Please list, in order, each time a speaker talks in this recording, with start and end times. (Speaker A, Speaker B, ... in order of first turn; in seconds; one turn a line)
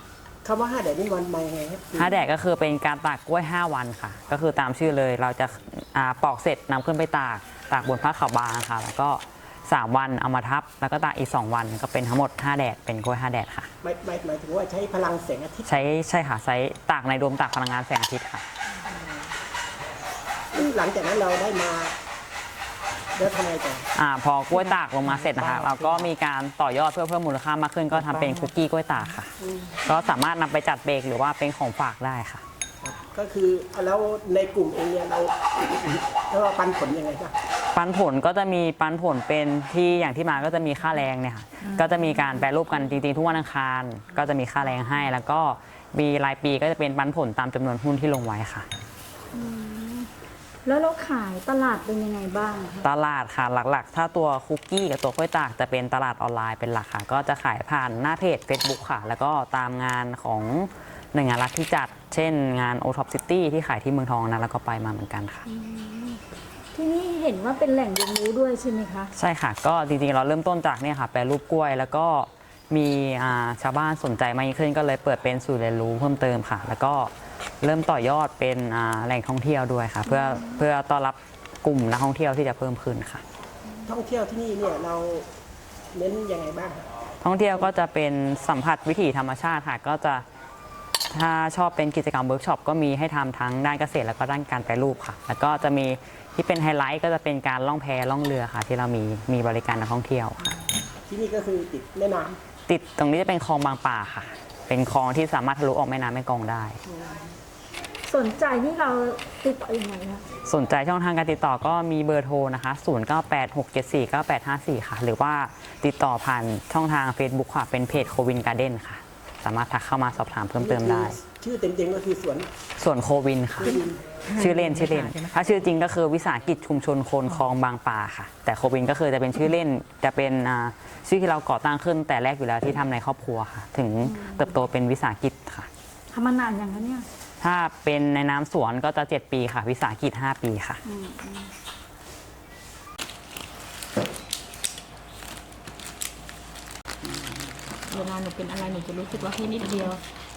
Speaker A: 0.4-2.2
Speaker B: 1.9-13.7
Speaker A: 13.8-15.7
Speaker B: 15.6-18.4
Speaker A: 18.9-19.3
Speaker A: 20.5-21.9
Speaker A: 23.1-23.9
Speaker B: 23.9-32.4
Speaker A: 24.6-26.1
Speaker A: 27.9-28.5
Speaker A: 29.4-29.8
Speaker A: 32.8-37.3
Speaker B: 37.7-48.7
Speaker C: 49.3-50.1
Speaker C: 50.6-52.8
Speaker B: 52.8-65.4
Speaker C: 65.5-66.2
Speaker C: 66.7-69.1
Speaker B: 69.1-83.2
Speaker C: 80.1-80.6
Speaker A: 83.8-85.3
Speaker A: 85.9-86.9
Speaker B: 87.2-90.2
Speaker B: 91.1-100.5
Speaker A: 101.1-102.4
Speaker B: 102.7-106.8
Speaker A: 106.9-107.3
Speaker C: 108.0-110.2
Speaker B: 110.5-121.2
Speaker A: 120.6-122.5
Speaker B: 122.8-123.8
Speaker A: 123.6-125.3
Speaker B: 124.3-135.7
Speaker C: 134.1-134.5
Speaker C: 136.1-137.1
Speaker B: 137.4-140.8
Speaker C: 140.9-141.5
Speaker D: 147.0-149.9
Speaker C: 148.2-150.0